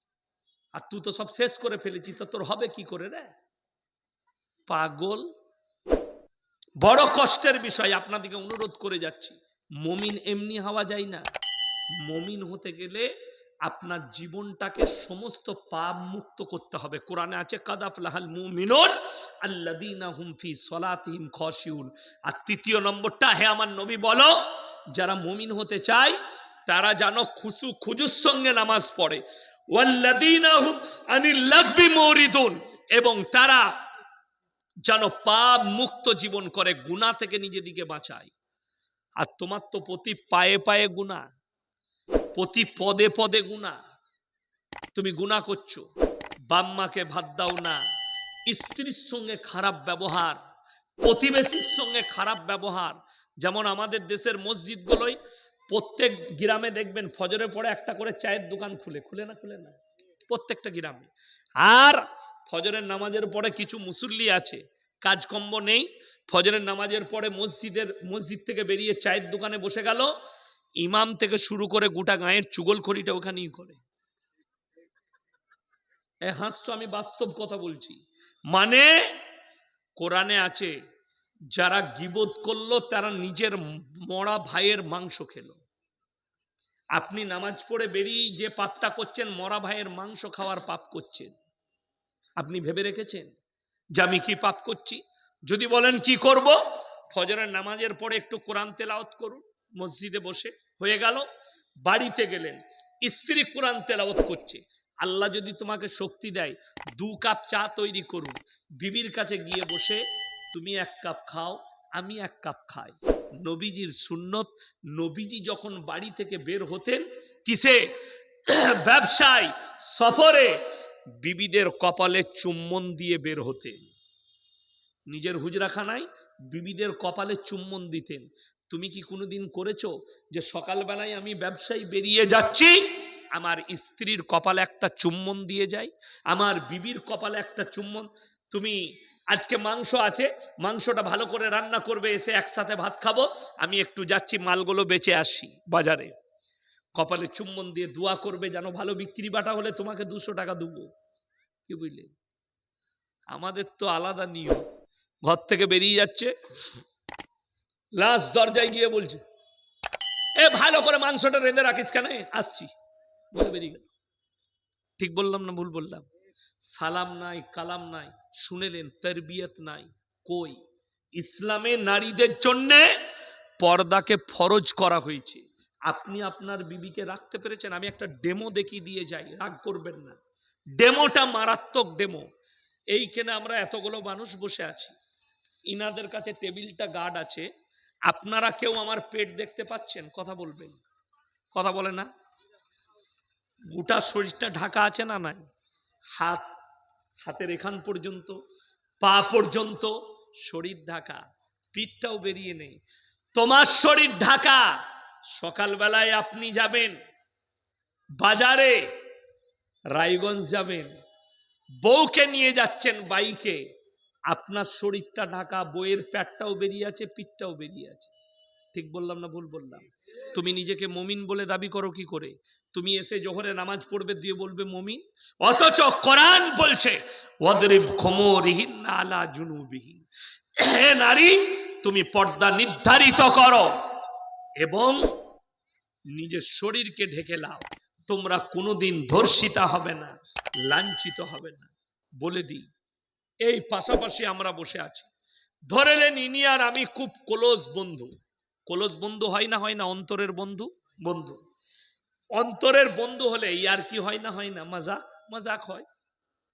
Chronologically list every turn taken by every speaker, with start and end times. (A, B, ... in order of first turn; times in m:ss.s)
0:00.7-0:03.3 A
0:04.7-0:05.3 A
0:06.8-0:11.2 A
0:12.0-0:13.1 A
0:13.6-0:33.7 A
0:34.9-0:38.3 A
0:39.2-0:41.2 A
0:42.4-0:43.8 A
0:44.9-0:45.8 A
0:46.5-0:47.8 A
0:48.5-0:50.4 A
0:51.0-0:59.8 A
1:00.3-1:10.1 A
1:10.8-1:13.8 A
1:16.2-1:18.0 A
1:18.5-1:19.2 A
1:20.0-1:20.7 A
1:21.5-1:25.6 A
1:27.0-1:31.3 A
1:32.4-1:33.3 A
1:34.0-1:41.3 A
1:41.8-1:57.8 A
1:58.5-2:00.6 A
2:01.2-2:03.9 A
2:05.1-2:12.8 A
2:13.3-2:26.1 A
2:27.0-2:30.9 A
2:31.7-2:32.1 A
2:33.3-2:34.7 A
2:35.2-2:36.3 A
2:38.0-2:39.2 A
2:40.4-2:42.7 A
2:43.3-2:43.9 A
2:45.0-2:46.0 A
2:46.7-2:50.6 A
2:51.2-2:52.9 A
2:53.6-3:00.2 A
3:00.8-3:02.3 A
3:02.9-3:04.9 A
3:05.7-3:07.5 A
3:08.1-3:10.8 A
3:11.5-3:12.1 A
3:13.7-3:15.5 A
3:16.1-3:16.5 A
3:17.2-3:18.4 A
3:19.0-3:22.8 A
3:23.3-3:24.7 A
3:25.3-3:27.0 A
3:28.2-3:28.9 A
3:29.9-3:31.0 A
3:31.8-3:33.6 A
3:34.3-3:38.1 A
3:38.7-3:50.0 A
3:50.6-3:53.7 A
3:54.6-3:55.1 A
3:56.1-4:02.7 A
4:03.4-4:05.1 A
4:05.7-4:08.1 A
4:08.7-4:11.4 A
4:12.3-4:15.8 A